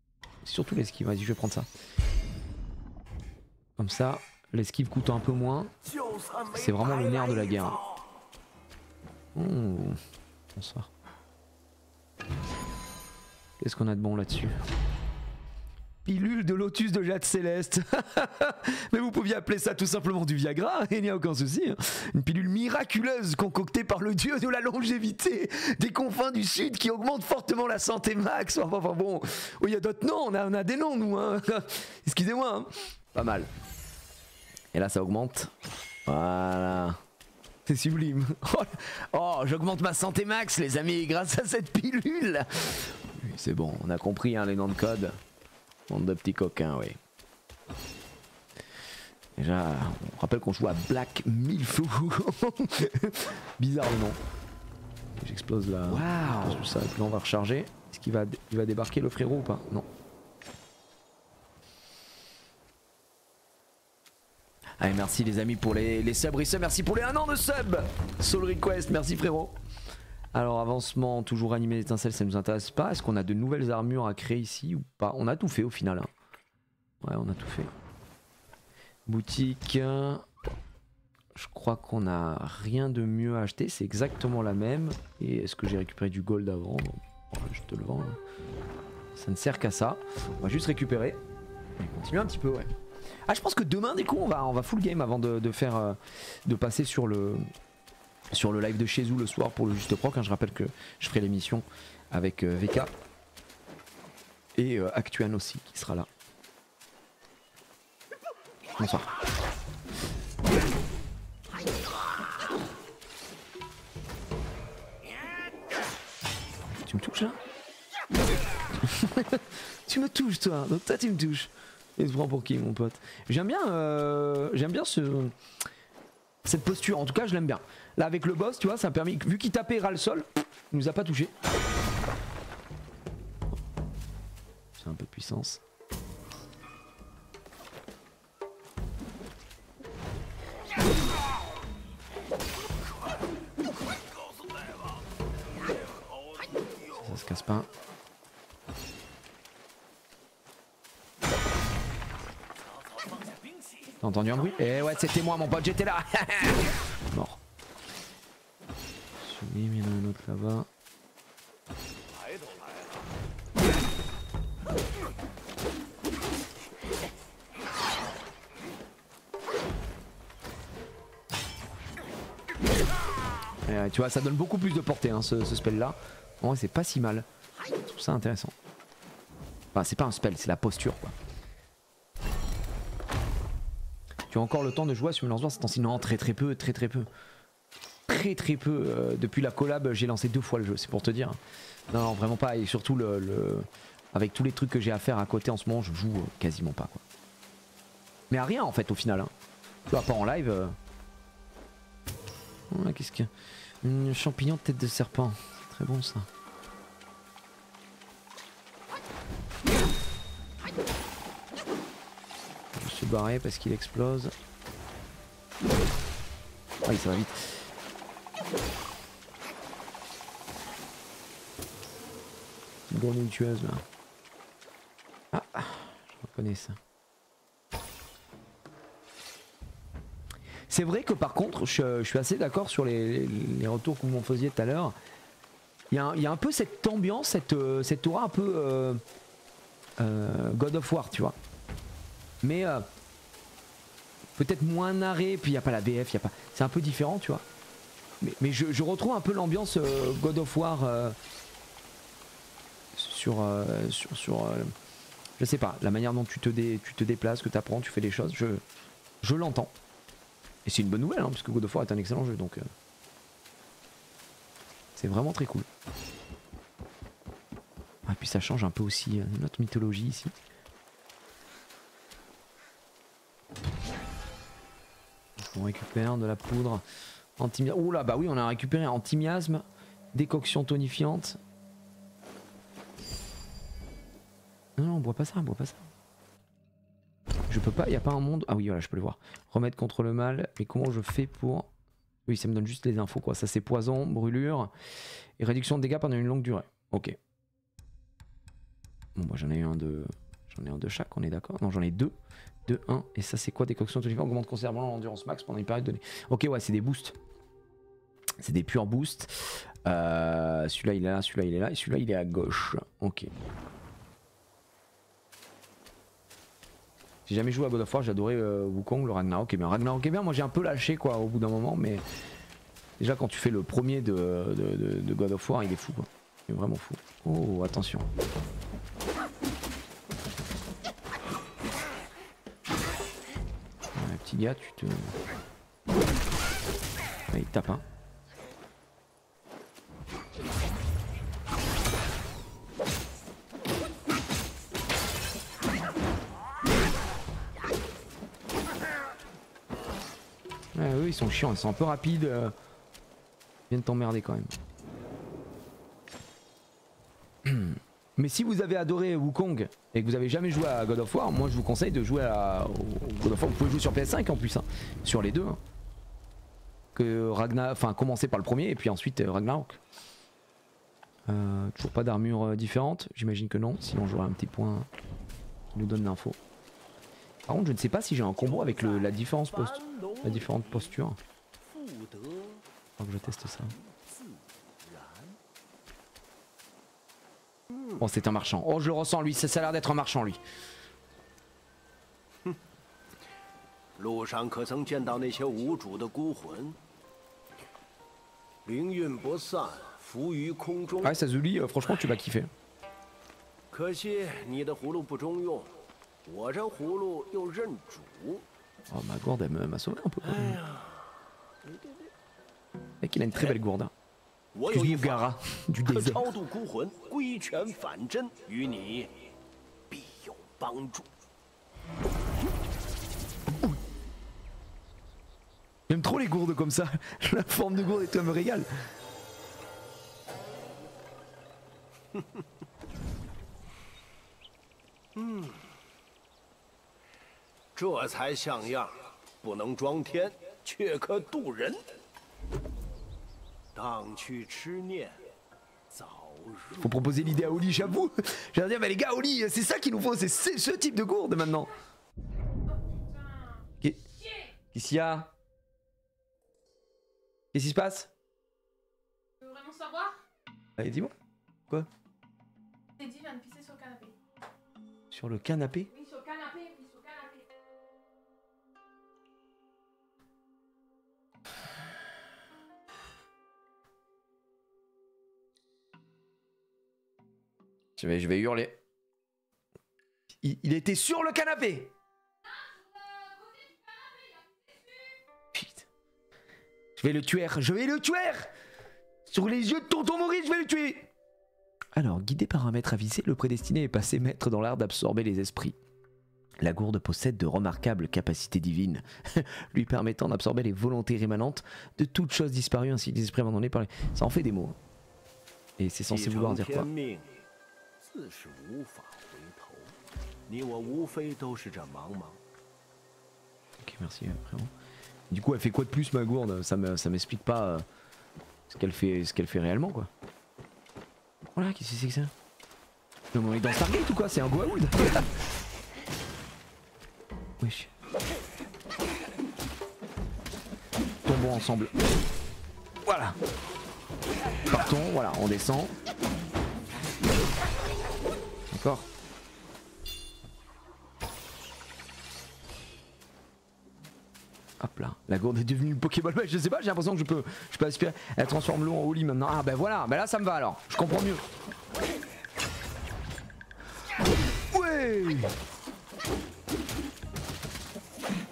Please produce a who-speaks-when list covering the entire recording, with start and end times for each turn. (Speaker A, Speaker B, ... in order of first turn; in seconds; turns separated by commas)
Speaker A: 0.4-1.7, Speaker A: 3.8-5.7, Speaker B: 5.8-8.0, Speaker A: 6.5-7.8, Speaker A: 9.3-10.0, Speaker A: 10.6-10.9, Speaker A: 13.6-14.6, Speaker A: 16.1-33.5, Speaker A: 34.7-35.5, Speaker A: 36.1-37.0, Speaker A: 37.7-45.2, Speaker A: 45.9-47.0, Speaker A: 49.4-54.2, Speaker A: 55.2-59.9, Speaker A: 64.8-69.6, Speaker A: 70.3-76.1, Speaker A: 77.0-77.7, Speaker A: 79.1-80.2, Speaker A: 81.3-88.2, Speaker A: 89.2-91.2, Speaker A: 91.8-92.7, Speaker A: 93.3-97.5, Speaker A: 98.3-102.9, Speaker A: 104.6-106.1, Speaker A: 108.8-109.1, Speaker A: 116.8-117.4, Speaker A: 118.8-125.3, Speaker A: 126.5-131.3, Speaker A: 134.8-135.6, Speaker A: 147.0-147.7, Speaker B: 153.0-153.7, Speaker A: 154.0-157.4, Speaker A: 159.2-160.7, Speaker B: 162.1-162.9, Speaker A: 173.7-177.3, Speaker A: 177.9-178.6, Speaker A: 179.7-181.2, Speaker A: 184.3-187.1, Speaker A: 188.1-191.4, Speaker A: 191.9-197.0, Speaker A: 198.3-199.3, Speaker A: 199.9-200.8, Speaker A: 202.7-203.3, Speaker A: 203.8-206.3, Speaker A: 212.7-214.3, Speaker A: 216.8-217.7, Speaker A: 222.9-223.8, Speaker A: 225.3-226.8, Speaker A: 230.7-234.9, Speaker A: 235.9-239.0, Speaker A: 240.0-241.4, Speaker A: 242.4-242.9, Speaker A: 244.4-247.4, Speaker A: 248.2-251.2, Speaker A: 252.9-254.7, Speaker A: 255.4-258.6, Speaker A: 259.2-259.7, Speaker A: 260.6-262.7, Speaker A: 265.0-265.7, Speaker A: 268.1-270.3, Speaker A: 275.4-276.8, Speaker A: 277.4-281.4, Speaker A: 284.8-285.9, Speaker A: 287.5-291.7, Speaker A: 292.3-294.7, Speaker A: 295.4-297.2, Speaker A: 299.1-302.1, Speaker A: 302.7-307.1, Speaker A: 308.4-313.3, Speaker A: 317.3-322.0, Speaker A: 323.0-328.1, Speaker A: 333.9-335.2, Speaker A: 337.3-337.9, Speaker A: 350.7-352.5, Speaker A: 353.7-354.6, Speaker A: 357.4-365.6, Speaker A: 366.9-369.8, Speaker A: 371.3-374.9, Speaker A: 375.8-376.4, Speaker A: 377.5-381.2, Speaker B: 378.4-380.8, Speaker B: 381.6-382.6, Speaker A: 383.0-383.8, Speaker B: 383.6-385.4, Speaker A: 388.0-390.4, Speaker B: 394.0-396.8, Speaker B: 398.6-401.1, Speaker A: 401.0-402.5, Speaker B: 403.7-408.5, Speaker A: 408.9-410.6, Speaker B: 410.3-411.0, Speaker B: 411.6-412.1, Speaker A: 413.0-413.9, Speaker B: 414.5-419.1, Speaker A: 414.7-416.3, Speaker B: 419.9-421.1, Speaker A: 425.9-428.7, Speaker B: 432.1-432.4, Speaker B: 435.1-435.6, Speaker B: 437.7-441.8, Speaker B: 443.7-445.2, Speaker B: 445.9-446.9, Speaker A: 446.8-451.7, Speaker C: 452.7-453.7, Speaker A: 454.7-455.3, Speaker A: 457.5-458.1, Speaker C: 459.4-460.2, Speaker A: 460.8-461.1, Speaker C: 463.0-464.2, Speaker A: 465.1-465.9, Speaker C: 465.9-467.5, Speaker A: 478.0-478.8, Speaker A: 480.4-481.9, Speaker C: 482.6-484.6, Speaker A: 485.5-485.9, Speaker A: 487.0-488.5, Speaker A: 489.3-491.1, Speaker A: 492.0-495.8, Speaker A: 496.6-504.8, Speaker A: 505.8-506.9, Speaker B: 506.1-507.4, Speaker B: 508.0-510.0, Speaker B: 510.5-512.4, Speaker A: 513.8-514.7, Speaker A: 515.3-517.9, Speaker A: 518.7-520.1, Speaker A: 521.5-522.3, Speaker A: 523.3-525.3, Speaker A: 527.6-527.9, Speaker A: 531.2-531.9, Speaker A: 533.0-533.4, Speaker A: 534.7-535.9, Speaker A: 538.7-539.1, Speaker A: 544.8-551.4, Speaker A: 554.7-555.5